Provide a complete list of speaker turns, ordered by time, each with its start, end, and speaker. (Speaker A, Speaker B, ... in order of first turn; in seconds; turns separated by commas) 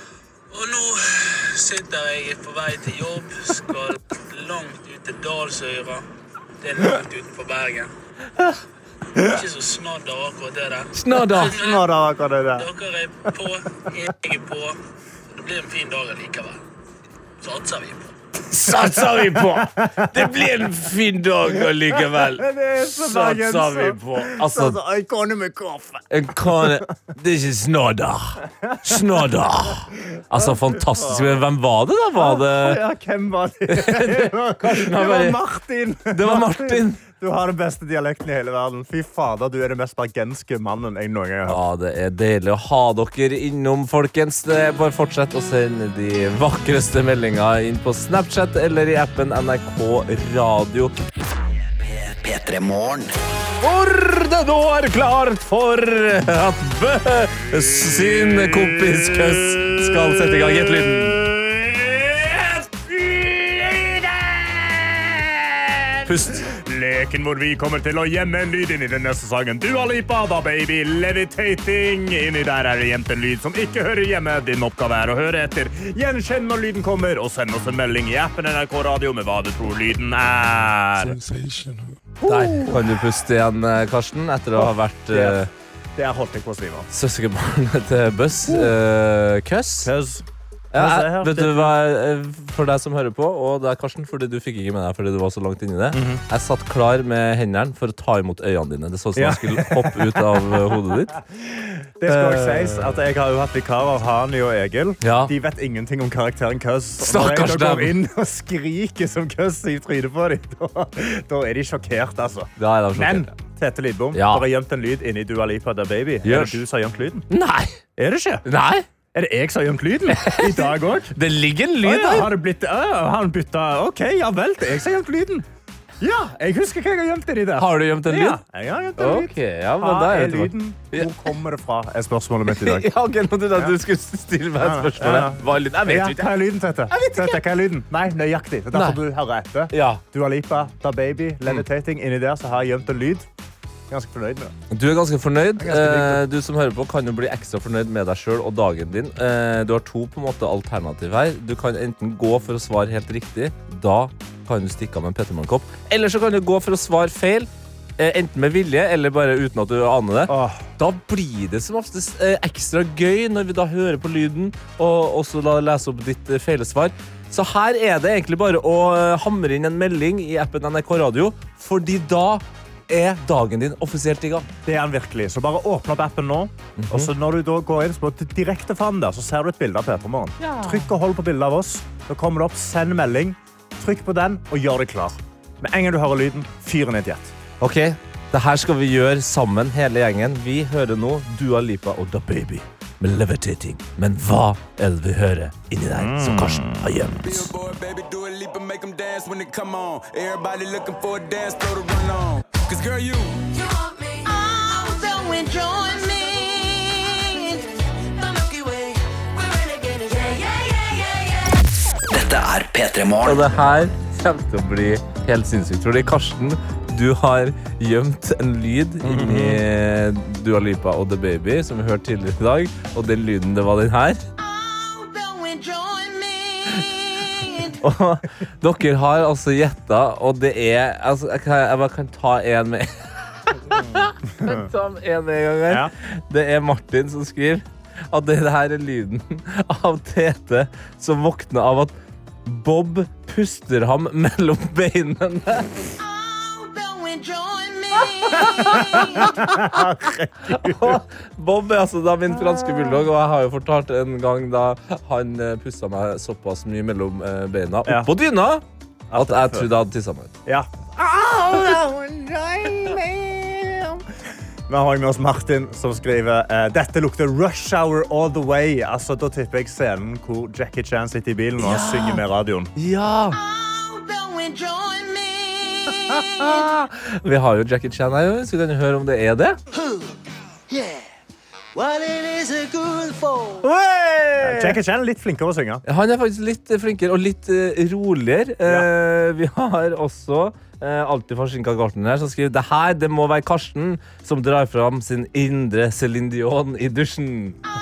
Speaker A: 0.5-6.0, Speaker A: 6.6-7.9, Speaker A: 9.1-11.9, Speaker B: 10.9-11.6, Speaker C: 11.5-12.7, Speaker A: 12.5-14.8, Speaker A: 15.3-16.6, Speaker A: 17.4-18.1, Speaker B: 18.5-24.8, Speaker C: 18.6-20.5, Speaker C: 21.5-26.9, Speaker B: 26.1-32.8, Speaker C: 28.5-31.4, Speaker C: 32.1-41.6, Speaker B: 33.7-35.4, Speaker B: 36.1-37.0, Speaker B: 41.5-50.9, Speaker D: 51.8-53.1, Speaker B: 53.6-61.2, Speaker C: 58.0-83.0, Speaker B: 66.0-66.5, Speaker B: 82.2-85.5, Speaker C: 84.5-86.9, Speaker B: 86.9-89.9, Speaker C: 88.5-88.7, Speaker C: 89.8-91.7, Speaker B: 90.7-101.1, Speaker C: 95.9-96.2, Speaker C: 99.2-117.2, Speaker B: 102.1-102.9, Speaker B: 105.0-105.3, Speaker B: 107.0-108.0, Speaker B: 112.6-113.3, Speaker B: 114.1-114.5, Speaker B: 116.2-116.6, Speaker B: 117.3-117.8, Speaker C: 118.0-118.4, Speaker B: 118.4-118.8, Speaker C: 119.1-121.1, Speaker B: 120.1-122.3, Speaker C: 121.8-125.5, Speaker C: 126.0-132.9, Speaker B: 127.6-128.4, Speaker B: 129.0-131.1, Speaker B: 132.5-136.3, Speaker C: 134.6-143.3, Speaker B: 136.9-137.4, Speaker B: 138.7-139.0, Speaker B: 139.7-140.0, Speaker C: 143.9-144.5, Speaker B: 144.7-174.5, Speaker C: 145.6-146.2, Speaker C: 160.3-160.7, Speaker C: 174.6-187.3, Speaker B: 176.8-177.1, Speaker B: 180.4-180.9, Speaker B: 187.6-197.5, Speaker C: 195.9-197.0, Speaker E: 197.2-203.6, Speaker A: 203.7-207.7, Speaker A: 209.6-210.9, Speaker D: 212.1-213.6, Speaker B: 213.2-224.2, Speaker C: 219.0-219.6, Speaker A: 224.4-226.9, Speaker A: 227.4-227.7, Speaker B: 227.8-241.9, Speaker C: 233.7-234.7, Speaker B: 242.4-245.9, Speaker A: 246.0-248.4, Speaker B: 248.3-249.8, Speaker C: 248.3-251.0, Speaker B: 250.4-260.3, Speaker C: 252.5-252.9, Speaker C: 257.8-258.1, Speaker C: 259.1-259.7, Speaker C: 260.4-264.1, Speaker C: 264.7-272.7, Speaker B: 271.6-272.2, Speaker B: 272.8-273.4, Speaker A: 273.4-276.2, Speaker B: 276.4-279.6, Speaker B: 283.6-284.8, Speaker C: 284.4-285.8, Speaker B: 285.9-297.6